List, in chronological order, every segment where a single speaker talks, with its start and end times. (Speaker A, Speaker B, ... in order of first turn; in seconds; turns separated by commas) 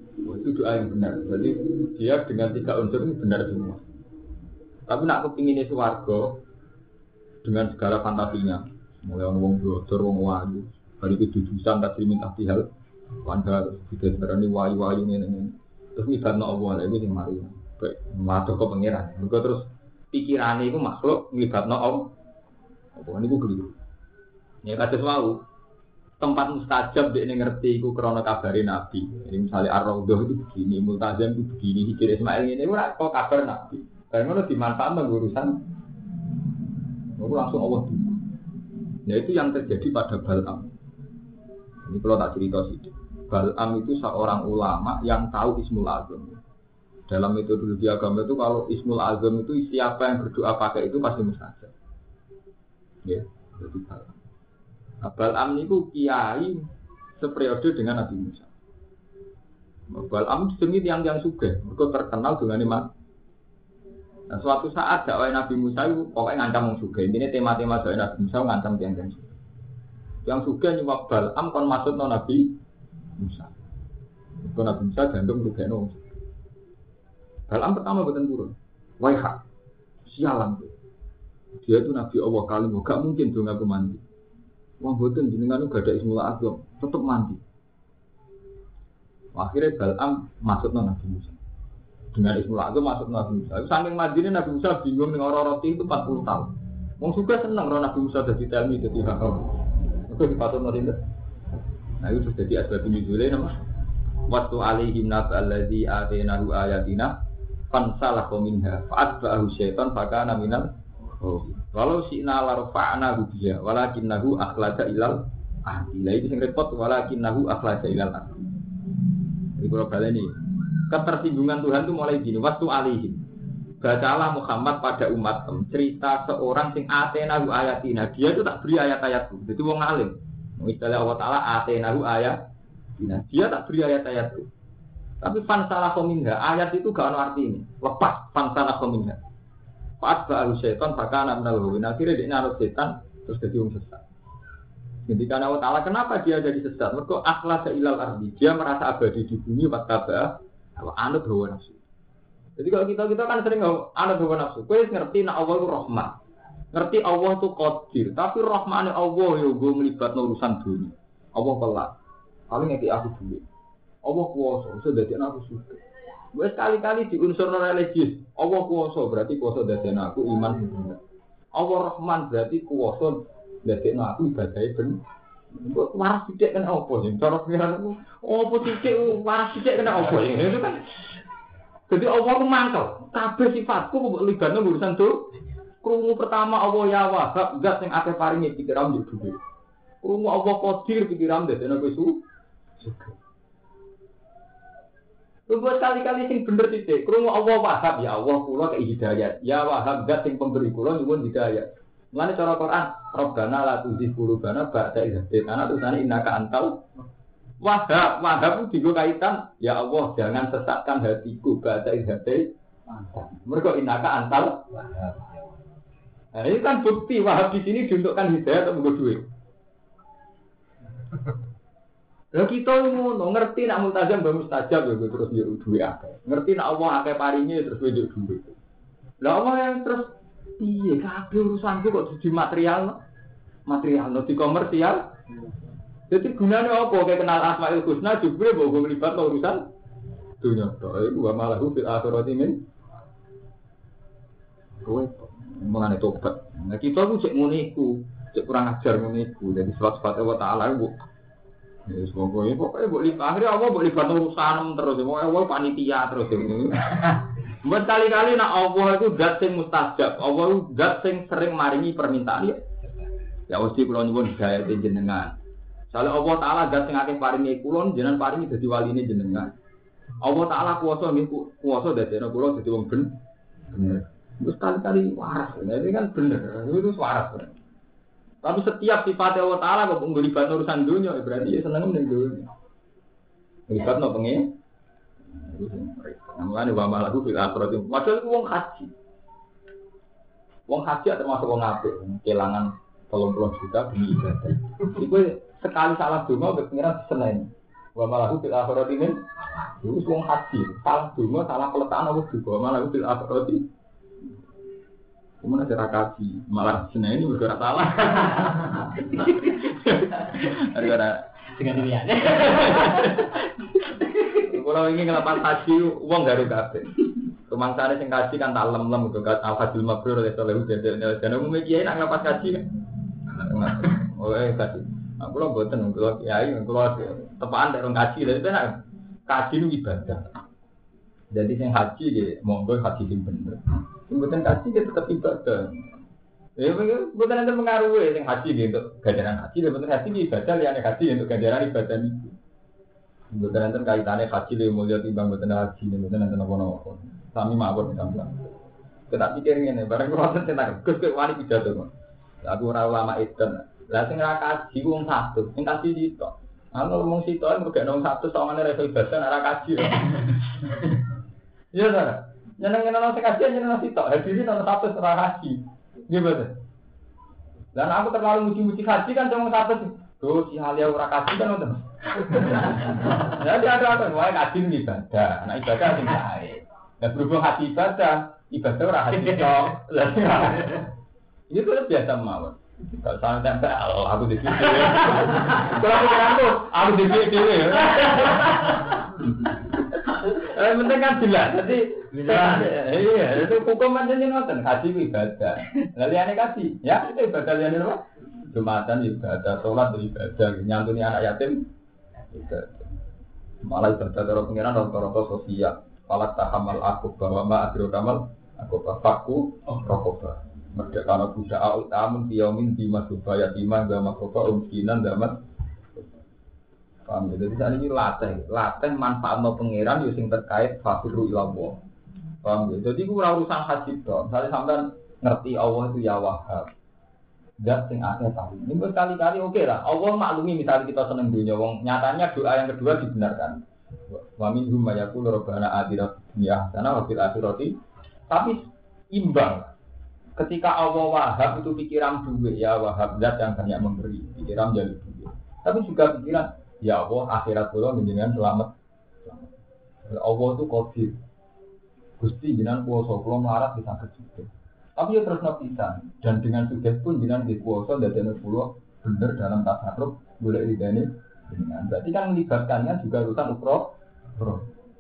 Speaker A: 0.2-3.9, Speaker A: 4.9-6.4, Speaker A: 7.4-12.7, Speaker A: 13.2-22.1, Speaker A: 23.0-23.8, Speaker A: 24.6-25.4, Speaker A: 26.2-35.6, Speaker A: 37.2-38.2, Speaker A: 39.1-40.7, Speaker A: 41.8-46.4, Speaker A: 47.1-51.7, Speaker A: 53.0-54.2, Speaker A: 55.0-56.6, Speaker A: 57.2-58.5, Speaker A: 59.9-62.9, Speaker A: 64.3-69.3, Speaker A: 70.2-72.6, Speaker A: 73.2-73.5, Speaker A: 74.4-76.2, Speaker A: 77.5-79.4, Speaker A: 80.1-80.7, Speaker A: 81.6-84.0, Speaker A: 84.8-87.4, Speaker A: 89.3-91.4, Speaker A: 92.1-99.5, Speaker A: 100.1-101.0, Speaker A: 102.0-103.6, Speaker A: 104.2-107.2, Speaker A: 107.7-118.5, Speaker A: 119.6-123.2, Speaker A: 123.8-132.4, Speaker A: 133.0-134.5, Speaker A: 135.2-139.2, Speaker A: 140.0-144.1, Speaker A: 145.1-151.8, Speaker A: 152.6-156.2, Speaker A: 156.7-161.9, Speaker A: 162.5-163.4, Speaker A: 164.0-165.8, Speaker A: 166.3-171.0, Speaker A: 171.6-175.0, Speaker A: 175.5-180.9, Speaker A: 181.9-185.3, Speaker A: 185.8-189.4, Speaker A: 190.0-192.2, Speaker A: 192.8-193.1, Speaker A: 195.5-206.9, Speaker A: 207.6-214.8, Speaker A: 216.3-219.3, Speaker A: 222.3-228.6, Speaker A: 229.2-233.0, Speaker A: 233.7-235.1, Speaker A: 236.1-239.6, Speaker A: 240.4-242.6, Speaker A: 244.8-250.9, Speaker A: 251.9-262.6, Speaker A: 263.5-265.4, Speaker A: 265.9-269.5, Speaker A: 270.2-273.1, Speaker A: 273.7-277.6, Speaker A: 278.4-282.5, Speaker A: 283.7-284.5, Speaker A: 285.3-288.9, Speaker A: 290.7-303.7, Speaker A: 305.4-313.4, Speaker A: 314.4-322.6, Speaker A: 323.3-330.4, Speaker A: 331.3-335.9, Speaker A: 336.6-342.4, Speaker A: 343.3-348.6, Speaker A: 349.1-351.9, Speaker A: 352.4-361.0, Speaker A: 361.7-366.6, Speaker A: 367.8-380.9, Speaker A: 381.5-401.7, Speaker A: 402.3-402.9, Speaker A: 403.6-415.4, Speaker A: 417.1-421.8, Speaker A: 422.4-426.7, Speaker A: 427.6-437.8, Speaker A: 438.3-439.7, Speaker A: 440.4-448.7, Speaker A: 449.2-449.5, Speaker A: 450.1-451.2, Speaker A: 452.2-464.7